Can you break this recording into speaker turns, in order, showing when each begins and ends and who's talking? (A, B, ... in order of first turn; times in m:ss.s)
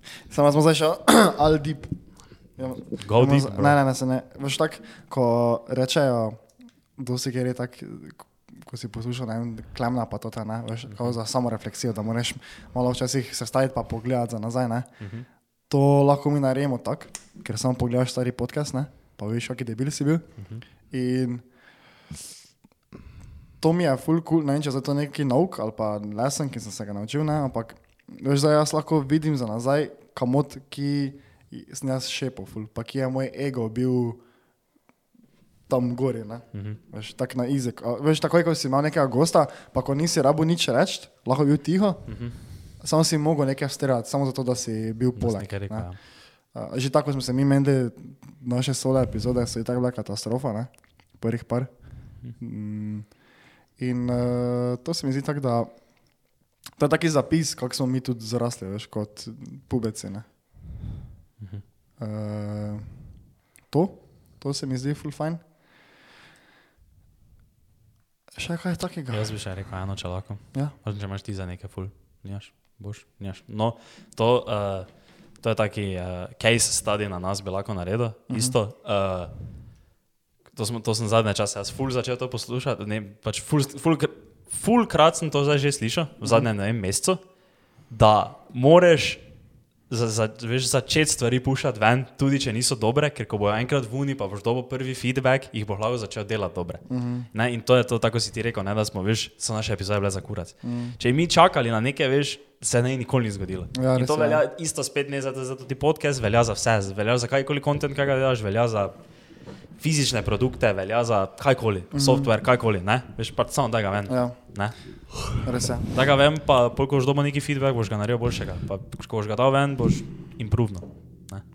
0:00.3-0:21.5 A
0:03.0-0:03.8 B
0:15.0-0:15.3 B
0:20.4-0:20.6 B
0:23.6-0:34.2 A
0:35.7-1:00.2 A
0:36.5-0:36.8 B
0:42.1-0:42.4 B
0:45.2-0:46.0 B
1:02.0-1:05.4 A
1:08.4-1:09.6 A
1:09.1-1:19.3 B
1:18.3-1:18.6 A
1:20.5-1:29.3 B
1:29.9-1:55.3 B
1:36.9-1:37.3 A
1:40.6-1:41.0 A
1:43.7-1:44.4 A
1:51.9-1:52.3 A
1:54.1-1:55.9 A
1:55.9-2:01.4 B